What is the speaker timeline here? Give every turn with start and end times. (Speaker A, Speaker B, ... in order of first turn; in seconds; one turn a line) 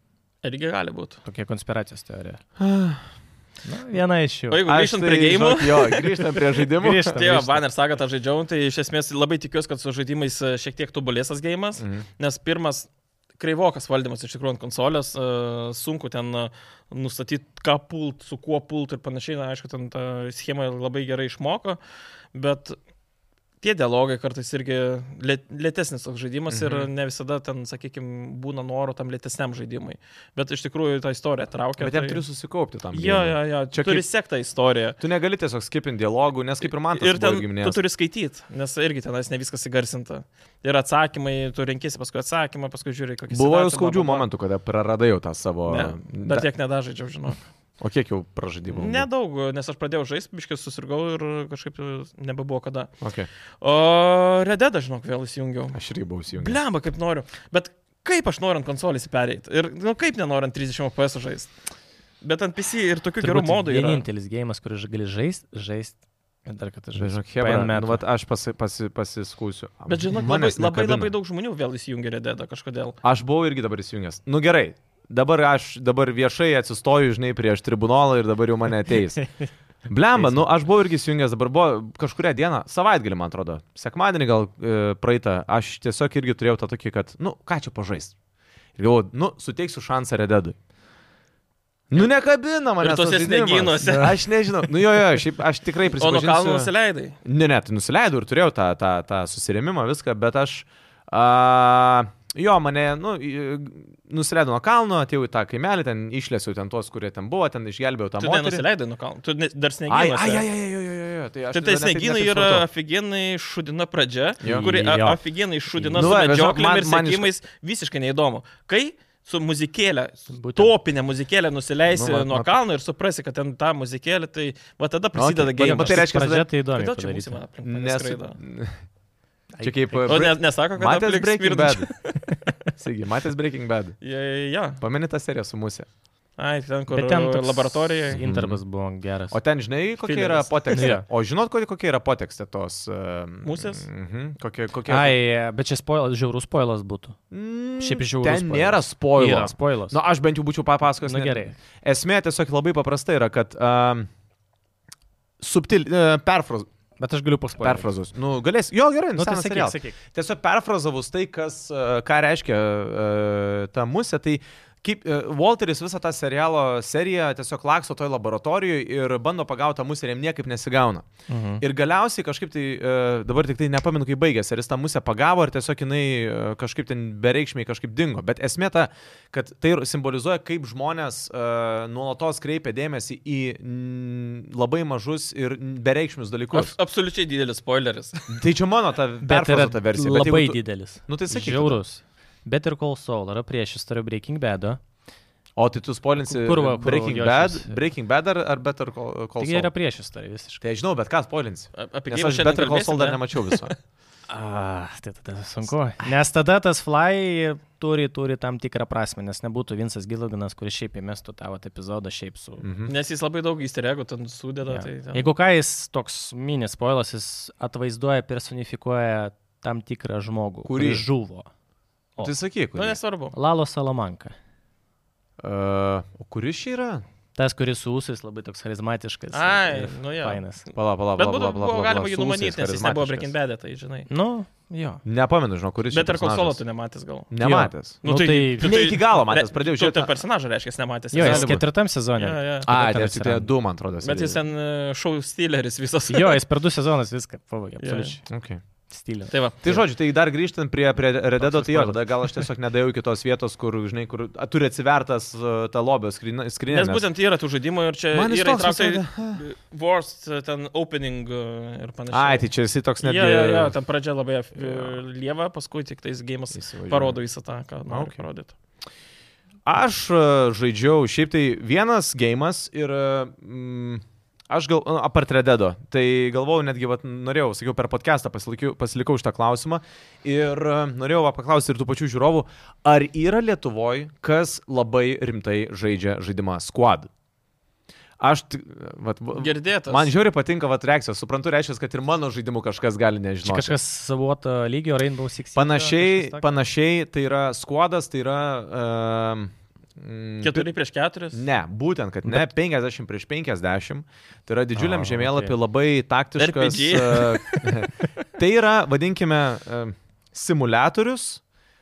Speaker A: 0.4-1.2
Speaker B: 1.2-2.4
Speaker C: 2.6-3.0
Speaker B: 3.6-4.6
Speaker A: 4.5-21.8
Speaker C: 4.6-7.2
Speaker B: 6.8-7.6
Speaker C: 11.8-12.0
Speaker A: 22.3-22.8
Speaker A: 23.6-32.2
Speaker C: 26.5-26.9
Speaker C: 31.8-34.0
Speaker A: 32.9-35.0
Speaker C: 35.0-37.8
Speaker A: 36.6-44.2
Speaker C: 43.3-46.5
Speaker A: 45.7-47.4
Speaker C: 47.8-49.0
Speaker A: 48.7-52.9
Speaker C: 53.0-53.3
Speaker A: 53.6-55.8
Speaker C: 55.7-56.6
Speaker A: 56.3-61.5
Speaker A: 62.2-64.0
Speaker B: 63.2-68.0
Speaker C: 67.0-71.1
Speaker A: 69.9-73.0
Speaker C: 73.0-79.3
Speaker C: 79.8-88.1
Speaker C: 88.8-90.5
Speaker C: 91.9-96.7
Speaker A: 92.8-94.7
Speaker A: 96.0-97.2
Speaker C: 97.2-108.6
Speaker A: 108.2-110.5
Speaker C: 109.9-112.7
Speaker A: 111.5-126.1
Speaker C: 114.4-114.7
Speaker B: 114.4-115.2
Speaker B: 115.7-116.2
Speaker C: 115.9-117.3
Speaker B: 120.3-120.7
Speaker C: 121.9-122.5
Speaker C: 125.1-126.5
Speaker B: 125.6-127.4
Speaker A: 126.7-128.4
Speaker C: 127.6-128.8
Speaker B: 129.5-130.2
Speaker C: 129.6-131.9
Speaker A: 130.1-132.3
Speaker C: 132.7-133.9
Speaker A: 134.0-134.8
Speaker C: 134.8-135.9
Speaker A: 136.4-138.2
Speaker B: 136.9-139.4
Speaker C: 138.1-138.6
Speaker C: 139.3-145.1
Speaker A: 140.0-140.9
Speaker B: 140.7-141.1
Speaker A: 143.4-143.8
Speaker B: 144.9-147.2
Speaker C: 147.3-154.1
Speaker B: 147.8-149.9
Speaker B: 151.0-151.6
Speaker C: 155.4-156.7
Speaker B: 157.0-157.9
Speaker C: 157.6-171.1
Speaker B: 159.2-159.9
Speaker B: 171.3-171.6
Speaker C: 171.6-186.7
Speaker A: 186.5-188.3
Speaker C: 188.3-191.8
Speaker B: 189.2-194.8
Speaker C: 195.6-199.7
Speaker B: 196.3-197.8
Speaker B: 199.4-200.6
Speaker C: 200.6-203.7
Speaker A: 201.8-203.7
Speaker B: 204.3-212.6
Speaker C: 212.6-212.9
Speaker A: 212.9-215.3
Speaker B: 214.7-221.5
Speaker C: 220.6-221.0
Speaker C: 222.2-223.0
Speaker A: 222.7-223.3
Speaker B: 223.3-224.3
Speaker C: 225.4-227.0
Speaker B: 227.3-230.6
Speaker A: 229.3-234.1
Speaker C: 230.7-233.3
Speaker B: 234.1-235.0
Speaker C: 235.0-236.6
Speaker A: 235.9-237.3
Speaker C: 237.3-238.0
Speaker B: 237.4-238.8
Speaker A: 238.0-241.6
Speaker C: 238.6-240.2
Speaker B: 241.1-243.5
Speaker C: 241.2-241.6
Speaker A: 242.2-242.7
Speaker C: 242.7-244.4
Speaker A: 244.0-246.4
Speaker B: 246.1-248.2
Speaker A: 247.8-248.2
Speaker C: 248.3-248.6
Speaker B: 248.9-249.8
Speaker A: 249.3-249.6
Speaker C: 249.6-257.1
Speaker B: 251.4-252.5
Speaker A: 256.7-262.5
Speaker C: 258.1-259.4
Speaker C: 262.1-263.7
Speaker A: 263.0-268.5
Speaker C: 264.6-265.0
Speaker C: 266.5-267.2
Speaker C: 267.9-268.2
Speaker C: 269.6-287.1
Speaker C: 288.2-293.8
Speaker A: 289.4-290.1
Speaker B: 293.4-296.5
Speaker C: 295.5-300.7
Speaker A: 300.4-301.4
Speaker C: 301.3-311.4
Speaker B: 304.7-305.6
Speaker A: 306.4-307.8